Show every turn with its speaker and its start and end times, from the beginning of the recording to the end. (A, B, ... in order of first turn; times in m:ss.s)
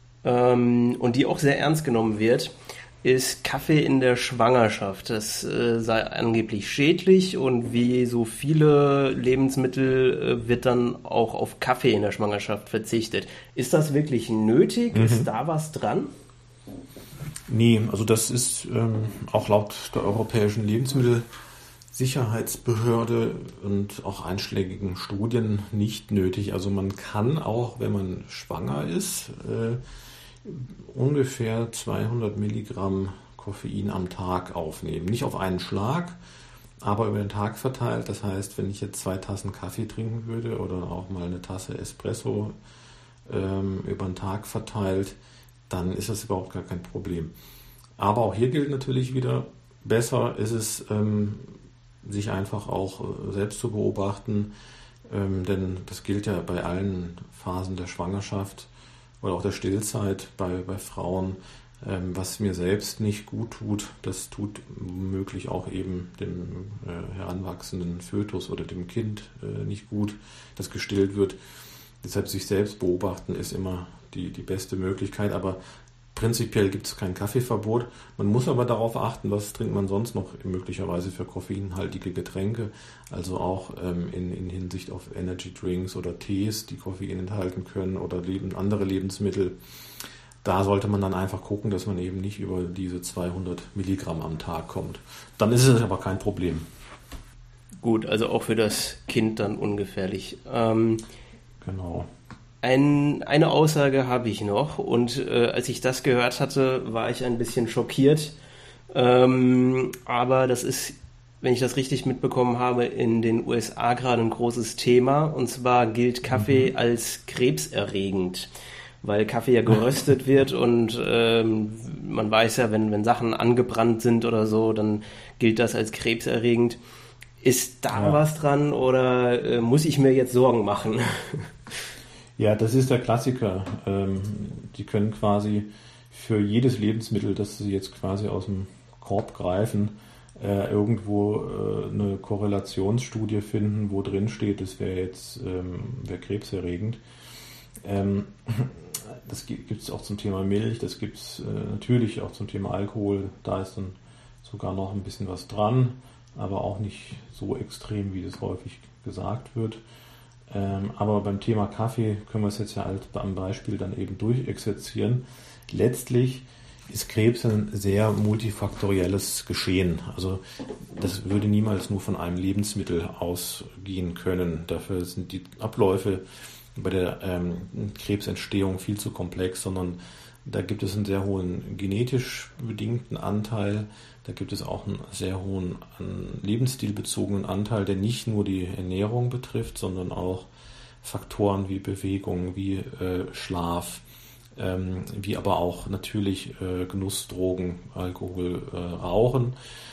0:00.2-0:16.1 A
0:14.9-0:15.3 B
0:17.5-0:21.3 B
0:21.9-0:29.8 B
0:30.4-0:36.2 B
0:36.8-0:42.5 B
0:43.3-0:45.2 B
0:45.7-0:47.3 B
0:48.0-0:54.5 B
0:55.1-0:58.7 B
0:59.2-1:11.4 B
1:12.0-1:15.6 B
1:16.1-1:29.6 B
1:30.4-1:36.7 B
1:37.8-1:41.0 A
1:41.6-1:42.1 B
1:42.6-1:48.4 A
1:48.9-1:58.5 A
1:56.4-1:56.7 B
1:59.0-2:06.8 A
2:07.4-2:11.5 A
2:07.9-2:08.2 B
2:12.4-2:27.0 B
2:27.8-2:39.8 B
2:40.5-2:56.2 B
2:56.8-3:10.5 B
3:11.0-3:14.0 B
3:14.6-3:19.6 B